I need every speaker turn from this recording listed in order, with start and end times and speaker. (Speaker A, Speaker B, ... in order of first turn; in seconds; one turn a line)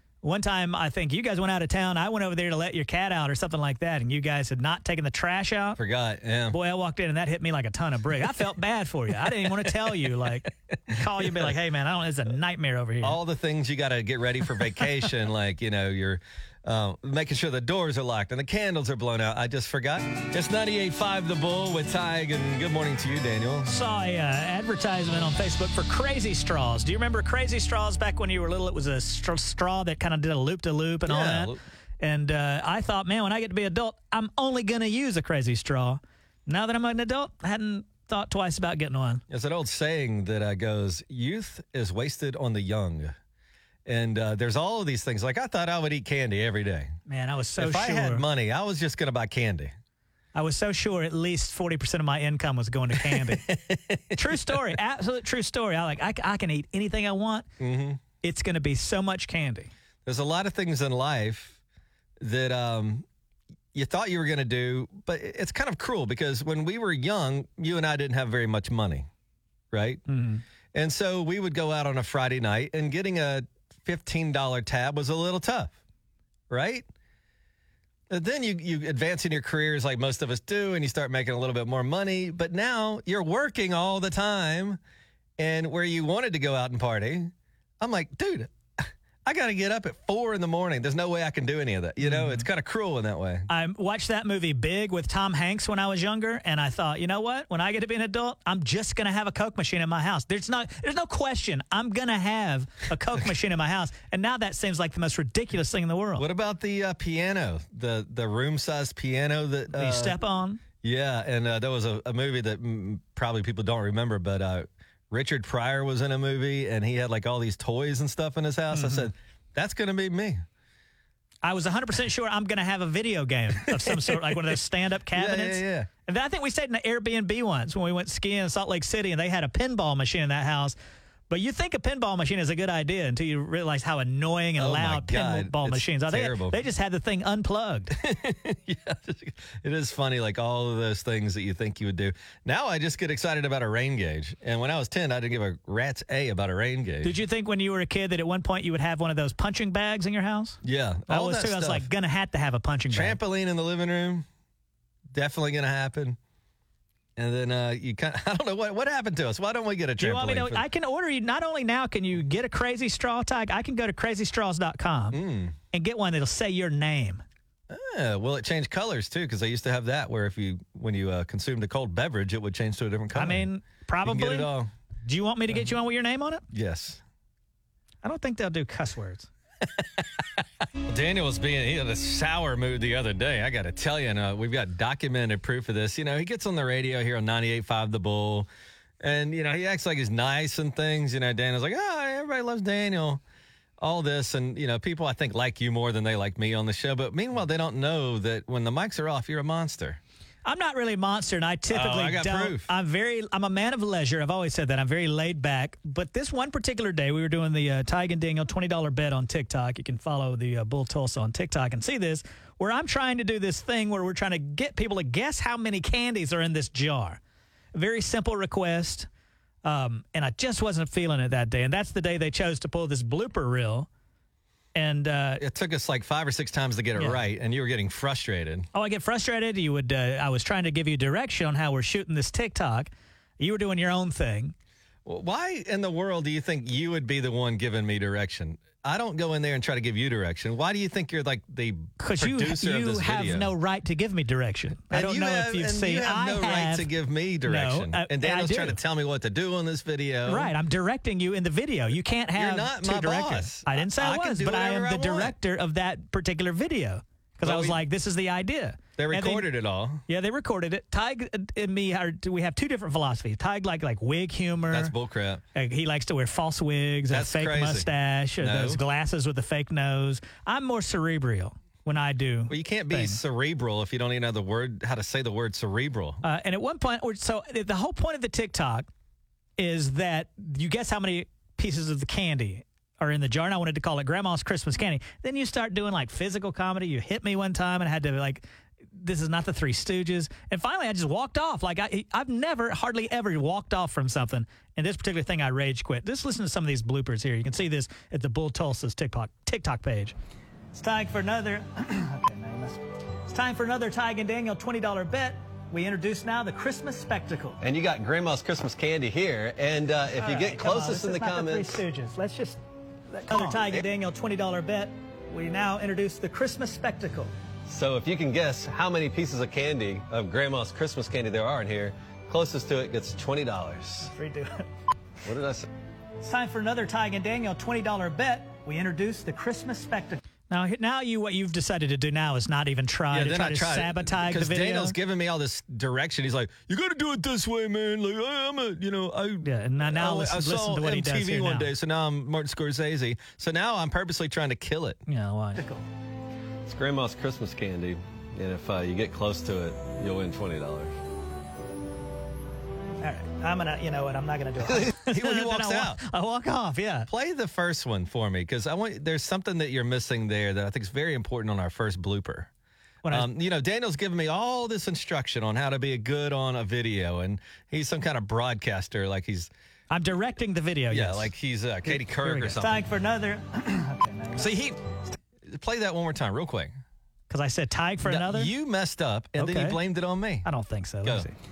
Speaker A: 0.2-5.8
Speaker B: 5.8-6.6
Speaker A: 6.5-13.2
Speaker B: 10.9-11.5
Speaker B: 13.0-23.7
Speaker A: 23.6-39.2
Speaker B: 31.1-31.6
Speaker B: 39.3-43.1
Speaker B: 43.9-46.9
Speaker A: 47.1-48.2
Speaker B: 47.6-49.7
Speaker A: 50.3-53.5
Speaker B: 53.0-54.7
Speaker A: 54.1-57.5
Speaker B: 57.6-58.0
Speaker A: 58.2-59.7
Speaker B: 60.0-61.5
Speaker B: 62.2-63.0
Speaker B: 63.7-69.1
Speaker B: 69.7-70.0
Speaker A: 70.1-70.4
Speaker B: 70.7-75.7
Speaker B: 76.5-76.8
Speaker B: 78.1-84.8
Speaker B: 85.4-93.5
Speaker A: 92.0-92.4
Speaker A: 93.5-106.2
Speaker B: 106.2-110.2
Speaker A: 109.7-110.6
Speaker B: 110.8-120.4
Speaker A: 118.7-119.1
Speaker A: 121.4-130.8
Speaker B: 123.7-124.5
Speaker B: 125.1-125.9
Speaker A: 131.3-137.9
Speaker B: 134.6-136.6
Speaker B: 138.0-147.2
Speaker A: 147.0-153.2
Speaker B: 150.6-151.8
Speaker B: 152.9-154.2
Speaker B: 155.1-156.2
Speaker B: 157.2-160.6
Speaker A: 160.0-165.2
Speaker B: 165.1-165.6
Speaker A: 165.7-167.2
Speaker B: 167.7-173.5
Speaker A: 173.1-174.5
Speaker B: 174.0-174.7
Speaker A: 175.0-176.4
Speaker B: 176.5-177.0
Speaker A: 178.0-179.3
Speaker B: 179.8-180.0
Speaker B: 180.9-188.5
Speaker B: 189.0-193.2
Speaker B: 193.8-200.0
Speaker A: 200.4-217.2
Speaker B: 201.7-202.7
Speaker A: 217.7-219.1
Speaker A: 219.6-223.9
Speaker A: 224.7-225.4
Speaker B: 225.4-228.7
Speaker A: 226.9-227.2
Speaker A: 228.7-234.5
Speaker B: 235.0-243.5
Speaker A: 242.0-246.9
Speaker B: 244.9-250.5
Speaker A: 247.4-248.8
Speaker A: 250.2-259.5
Speaker B: 252.3-255.3
Speaker B: 257.4-257.8
Speaker B: 259.0-260.0
Speaker A: 260.1-264.9
Speaker B: 264.7-265.4
Speaker A: 265.5-273.2
Speaker B: 267.1-268.8
Speaker B: 272.5-276.2
Speaker A: 276.2-278.9
Speaker A: 279.6-300.1
Speaker A: 300.7-307.6
Speaker B: 307.6-311.8
Speaker A: 310.1-317.3
Speaker B: 313.3-313.8
Speaker B: 317.7-324.1
Speaker A: 324.0-324.7
Speaker B: 325.2-325.7
Speaker A: 326.2-335.0
Speaker B: 333.1-345.0
Speaker A: 339.4-341.7
Speaker A: 345.1-345.8
Speaker B: 346.6-350.9
Speaker A: 353.0-357.1
Speaker B: 354.7-356.0
Speaker B: 357.1-362.5
Speaker A: 363.0-363.3
Speaker B: 363.1-369.5
Speaker A: 369.9-371.3
Speaker B: 370.9-372.8
Speaker A: 371.8-374.7
Speaker B: 374.4-374.8
Speaker B: 375.5-376.7
Speaker A: 377.3-378.5
Speaker B: 378.0-380.5
Speaker A: 379.4-379.8
Speaker A: 380.4-381.3
Speaker B: 381.0-381.3